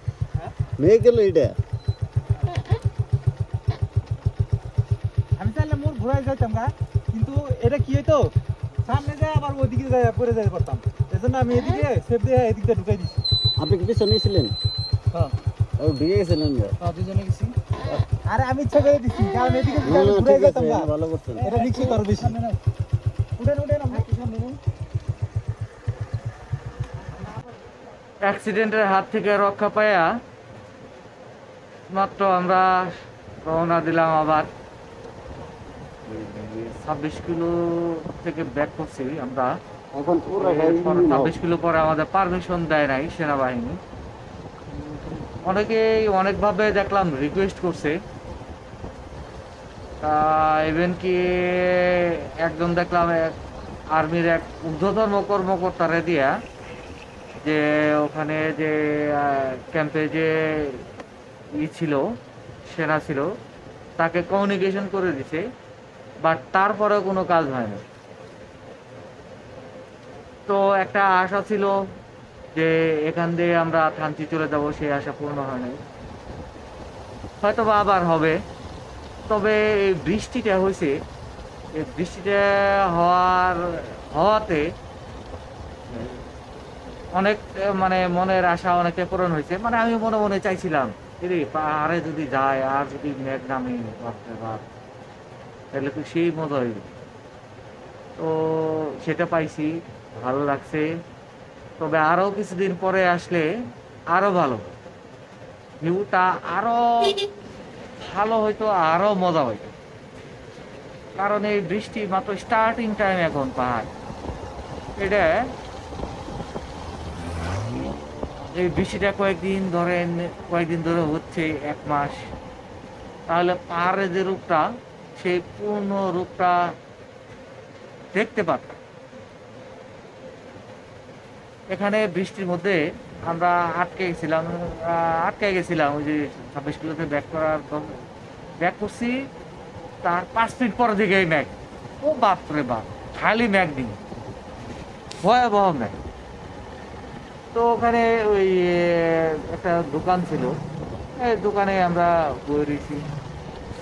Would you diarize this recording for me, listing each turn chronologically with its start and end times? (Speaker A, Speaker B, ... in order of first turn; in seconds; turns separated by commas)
Speaker A: 0.8-1.6, Speaker B: 5.4-8.3, Speaker B: 8.8-13.2, Speaker A: 13.6-14.5, Speaker A: 15.8-16.8, Speaker B: 16.9-17.5, Speaker B: 18.2-22.6, Speaker A: 19.8-22.1, Speaker B: 23.4-24.6, Speaker C: 28.2-30.1, Speaker C: 31.9-32.9, Speaker C: 33.4-34.5, Speaker C: 36.1-39.5, Speaker A: 39.9-41.4, Speaker C: 40.4-43.8, Speaker C: 45.4-48.0, Speaker C: 50.0-53.4, Speaker C: 53.9-56.3, Speaker C: 57.4-60.8, Speaker C: 61.5-62.0, Speaker C: 62.7-63.3, Speaker C: 64.0-65.4, Speaker C: 66.2-67.8, Speaker C: 70.5-71.8, Speaker C: 72.5-75.8, Speaker C: 77.4-78.4, Speaker C: 79.3-80.9, Speaker C: 81.7-84.7, Speaker C: 85.9-86.2, Speaker C: 87.1-94.7, Speaker C: 95.7-96.9, Speaker C: 98.2-100.9, Speaker C: 101.8-103.5, Speaker C: 104.1-104.7, Speaker C: 105.8-107.2, Speaker C: 108.0-109.7, Speaker C: 111.1-113.9, Speaker C: 115.0-115.3, Speaker C: 118.5-122.3, Speaker C: 123.3-124.6, Speaker C: 125.2-126.6, Speaker C: 128.1-128.8, Speaker C: 131.7-138.0, Speaker C: 138.6-139.2, Speaker C: 140.0-144.0, Speaker C: 145.2-146.0, Speaker C: 147.5-150.6, Speaker C: 151.2-153.0